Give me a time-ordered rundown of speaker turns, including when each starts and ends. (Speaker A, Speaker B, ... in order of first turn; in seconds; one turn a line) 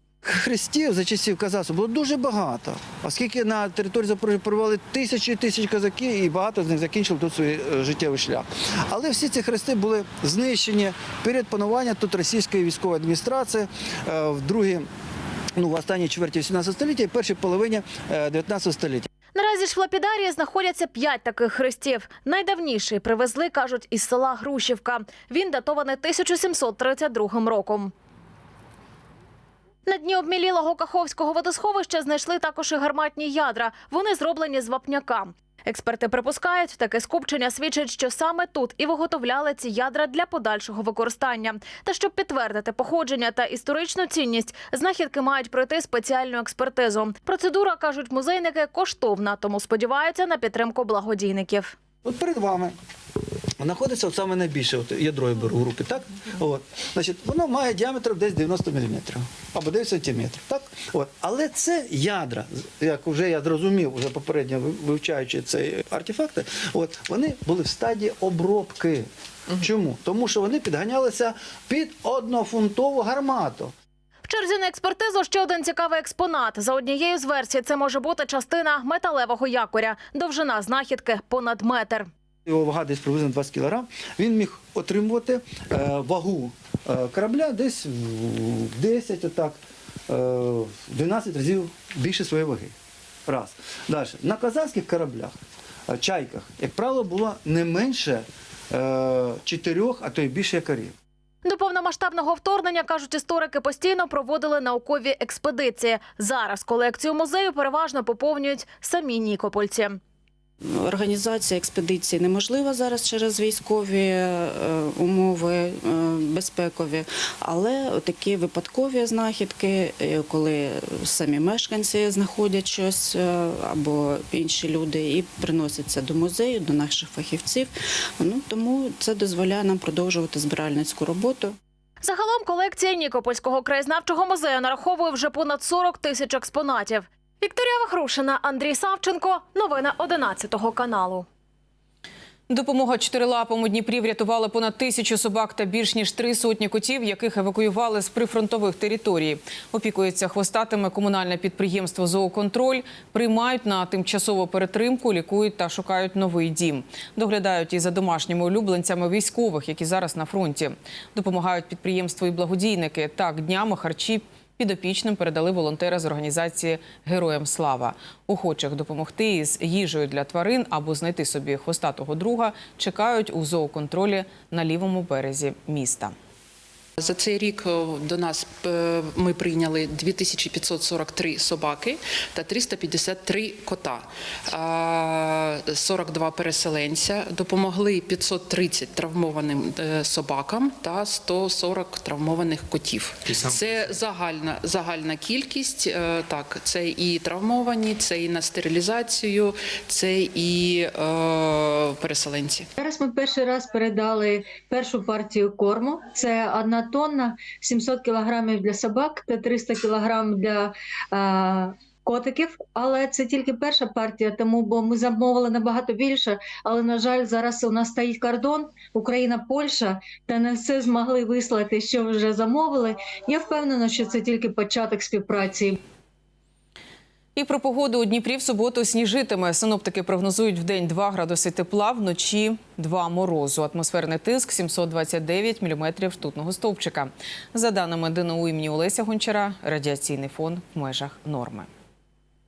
Speaker A: 0.2-14.9
Speaker A: 15.6-19.1
Speaker B: 19.3-27.9
Speaker B: 29.9-51.7
Speaker A: 52.0-52.7
Speaker A: 53.6-73.7
Speaker B: 74.2-82.1
Speaker A: 82.5-92.7
Speaker A: 93.3-95.4
Speaker A: 95.9-100.9
Speaker B: 101.4-110.0
Speaker C: 110.7-131.5
Speaker B: 132.0-141.2
Speaker D: 142.5-176.1
Speaker E: 177.0-202.7
Speaker F: 202.8-225.8
Speaker D: 227.4-241.7